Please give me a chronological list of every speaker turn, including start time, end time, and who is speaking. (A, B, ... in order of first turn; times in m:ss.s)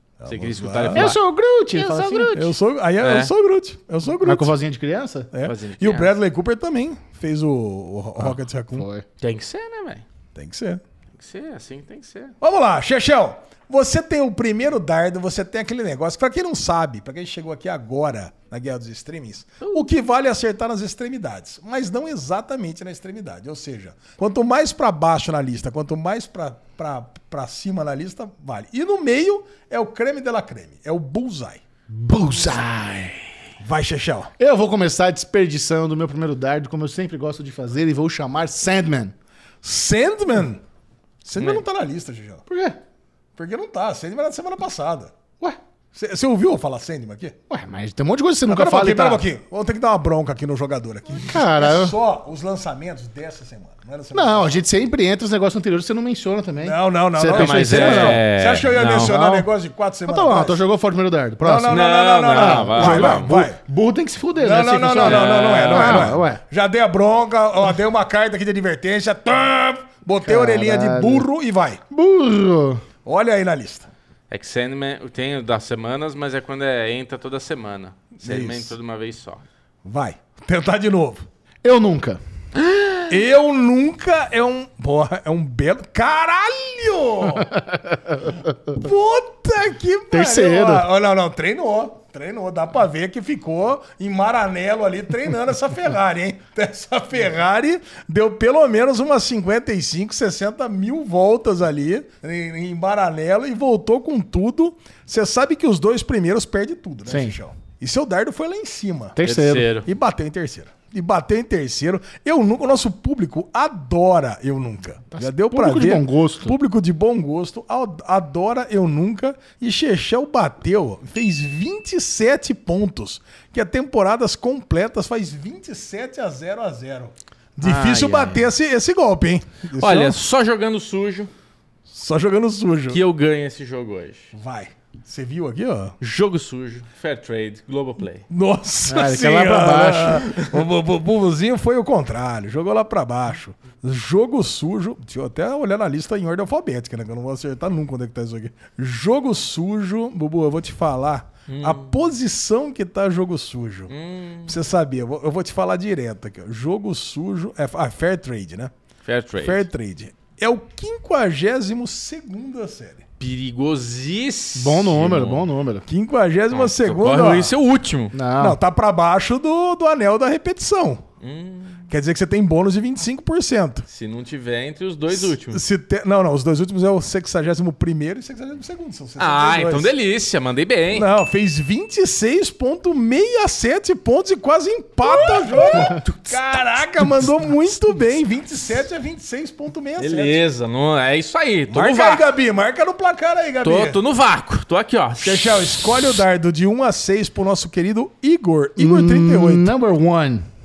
0:00.2-0:01.1 A
0:00.2-0:01.2 B
0:00.9-0:02.5 C
0:01.7-0:02.4 B
0:02.3-0:04.5 A
0:03.0-0:03.3 B
0:04.2-0:05.3 C
0:05.3-0:08.9 A
0:05.4-0:06.1 B
0:08.7-0:09.0 C
0:09.2-0:10.0 B
0:10.3-0:10.8 A
0:11.2-0:12.3 B
0:12.4-0:31.6 A
0:31.9-0:33.2 C
0:33.6-0:34.3 A
0:34.4-0:39.1 C
0:39.6-0:40.6 A
0:41.2-0:42.4 A
0:41.4-0:41.6 B
0:42.5-0:42.8 C
0:43.4-0:45.1 A
0:45.9-0:47.4 A
0:47.5-0:49.2 C
0:48.5-0:54.6 A
0:51.2-0:52.0 C
0:54.1-0:58.2 C
0:56.6-1:00.6 A
0:57.3-0:59.1 B
0:58.9-0:59.5 C
1:00.1-1:06.4 C
1:01.4-1:03.6 A
1:01.7-1:03.4 B
1:04.4-1:11.8 A
1:05.0-1:06.2 B
1:10.2-1:11.3 C
1:11.9-1:12.8 C
1:13.0-1:13.9 A
1:14.3-1:19.4 B
1:18.2-1:18.7 A
1:19.8-1:21.2 A
1:21.6-1:22.2 C
1:22.6-1:23.1 B
1:23.1-1:27.5 A
1:27.6-1:28.3 C
1:28.7-1:49.2 A
1:30.1-1:30.8 C
1:47.1-1:47.4 C
1:49.2-1:49.7 C
1:49.2-1:49.9 B
1:49.8-2:10.2 A
1:55.1-1:56.5 C
2:07.6-2:08.5 B
2:09.8-2:11.3 B
2:11.9-2:13.0 A
2:12.9-2:14.3 B
2:14.3-2:15.9 A
2:16.0-2:18.2 B
2:18.3-2:33.9 A
2:18.9-2:20.3 C
2:31.5-2:31.9 B
2:33.9-2:34.5 B
2:34.4-2:38.7 A
2:39.0-2:39.6 B
2:39.4-2:43.0 A
2:43.2-2:45.5 B
2:44.6-2:45.8 C
2:45.9-2:47.5 A
2:46.5-2:48.1 B
2:48.1-2:48.6 C
2:48.4-2:51.0 A
2:51.2-2:51.9 B
2:51.9-2:53.8 A
2:53.9-2:55.6 B
2:55.1-2:59.9 A
2:59.2-3:01.1 B
3:00.9-3:10.4 A
3:05.0-3:06.4 B
3:10.0-3:12.3 B
3:11.7-3:14.0 A
3:13.6-3:15.8 B
3:15.2-3:19.7 A
3:18.8-3:20.5 C